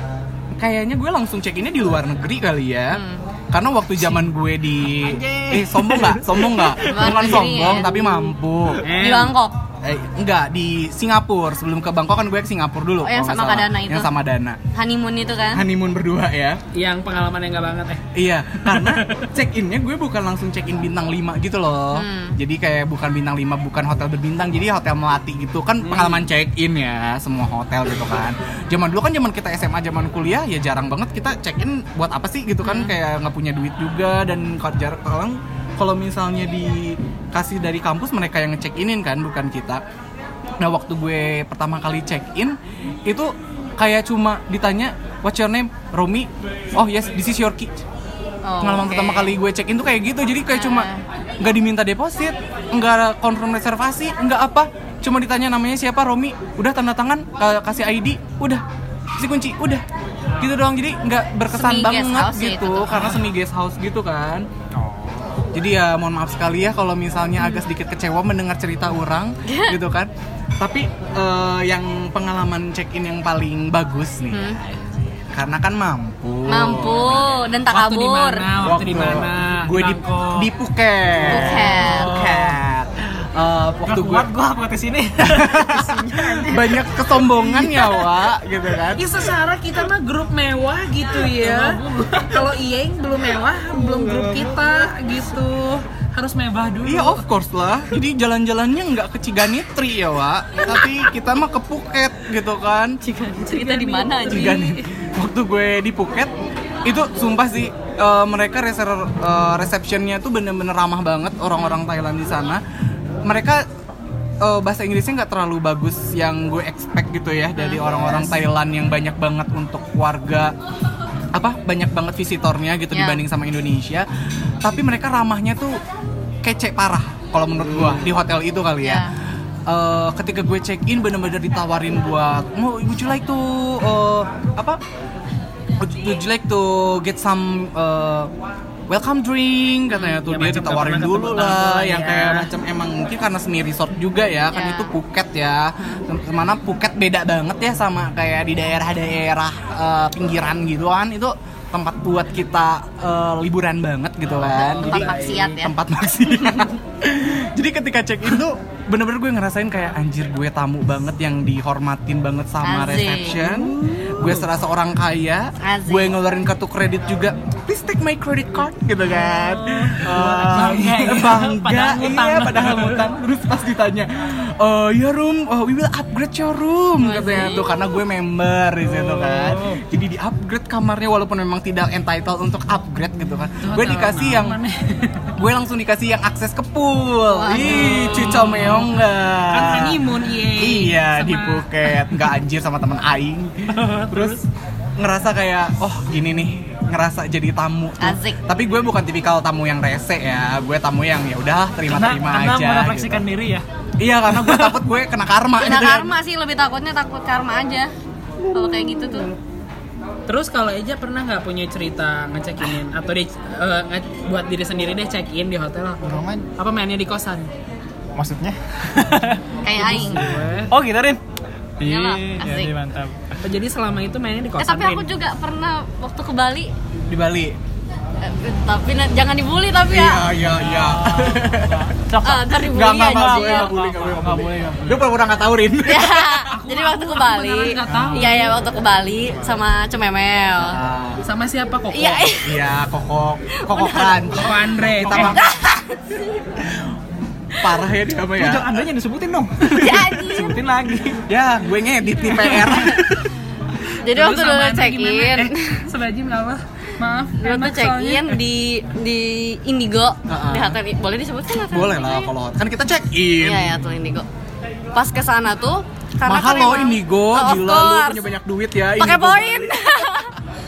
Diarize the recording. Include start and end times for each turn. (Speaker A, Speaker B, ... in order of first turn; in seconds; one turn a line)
Speaker A: 0.6-8.8
Speaker B: 2.9-3.2
Speaker C: 5.1-5.6
Speaker D: 5.5-6.4
Speaker B: 6.8-8.0
Speaker D: 7.0-7.3
Speaker C: 8.8-9.3
Speaker B: 8.9-9.6
Speaker A: 9.8-14.6
Speaker B: 13.0-14.1
Speaker B: 14.7-15.6
Speaker A: 15.5-16.6
Speaker C: 16.7-18.0
Speaker A: 18.1-39.8
Speaker B: 21.9-22.4
Speaker C: 25.8-26.2
Speaker B: 32.6-32.9
Speaker A: 40.6-47.8
Speaker B: 48.4-49.3
Speaker A: 48.6-50.9
Speaker B: 50.5-51.0
Speaker A: 51.4-58.6
Speaker A: 59.2-59.8
Speaker A: 60.4-64.5
Speaker B: 61.5-63.1
Speaker A: 65.5-77.4
Speaker B: 69.5-69.8
Speaker B: 74.3-74.6
Speaker B: 76.5-78.5
Speaker C: 77.7-80.5
Speaker A: 78.6-84.3
Speaker B: 81.2-82.4
Speaker D: 81.5-82.5
Speaker D: 83.8-85.8
Speaker A: 85.2-89.0
Speaker B: 85.6-86.7
Speaker C: 88.9-97.2
Speaker D: 91.4-92.2
Speaker D: 93.8-94.4
Speaker A: 96.8-103.0
Speaker B: 103.0-104.8
Speaker C: 103.5-104.6
Speaker A: 104.3-106.3
Speaker A: 106.8-112.6
Speaker A: 113.2-113.7
Speaker A: 114.4-120.5
Speaker B: 117.5-118.1
Speaker A: 121.3-124.1
Speaker B: 122.9-123.2
Speaker A: 124.6-125.8
Speaker A: 126.4-129.1
Speaker B: 128.8-129.1
Speaker A: 129.7-134.8
Speaker A: 135.8-138.3
Speaker A: 138.9-184.6
Speaker C: 140.2-142.5
Speaker B: 144.5-144.9
Speaker B: 154.5-155.7
Speaker C: 154.7-155.6
Speaker B: 162.6-163.6
Speaker C: 163.8-164.4
Speaker B: 165.6-166.1
Speaker D: 170.0-170.9
Speaker C: 170.0-173.0
Speaker B: 177.0-177.6
Speaker C: 183.6-185.3
Speaker A: 185.4-194.4
Speaker B: 187.3-188.4
Speaker C: 187.5-188.9
Speaker C: 189.5-192.0
Speaker D: 193.7-194.3
Speaker A: 195.0-203.2
Speaker B: 198.0-198.4
Speaker D: 201.9-203.6
Speaker A: 204.0-206.1
Speaker D: 204.4-204.8
Speaker B: 205.6-207.9
Speaker B: 208.5-209.3
Speaker C: 210.3-216.0
Speaker D: 216.0-216.4
Speaker C: 216.6-217.5
Speaker D: 218.2-221.2
Speaker B: 219.6-220.2
Speaker C: 219.7-220.7
Speaker D: 221.8-223.2
Speaker B: 221.8-222.7
Speaker C: 223.4-225.1
Speaker B: 224.6-226.7
Speaker A: 227.1-227.6
Speaker B: 228.2-230.2
Speaker A: 229.9-231.9
Speaker D: 230.4-235.1
Speaker B: 232.2-233.7
Speaker A: 232.6-236.4
Speaker B: 235.8-240.8
Speaker C: 236.5-238.6
Speaker D: 237.9-238.3
Speaker A: 240.6-241.2
Speaker C: 241.2-242.3
Speaker B: 241.9-242.5
Speaker A: 242.4-245.6
Speaker B: 243.6-244.2
Speaker C: 244.3-245.4
Speaker B: 245.1-246.2
Speaker A: 246.6-246.9
Speaker A: 247.6-248.8
Speaker D: 248.4-251.2
Speaker B: 249.7-250.6
Speaker A: 251.3-253.3
Speaker B: 252.3-253.1
Speaker B: 254.0-255.8
Speaker C: 254.1-258.4
Speaker B: 257.4-262.2
Speaker A: 260.3-260.8
Speaker A: 261.7-263.8
Speaker B: 263.4-264.2
Speaker B: 264.9-268.2
Speaker A: 266.2-269.8
Speaker B: 269.0-270.3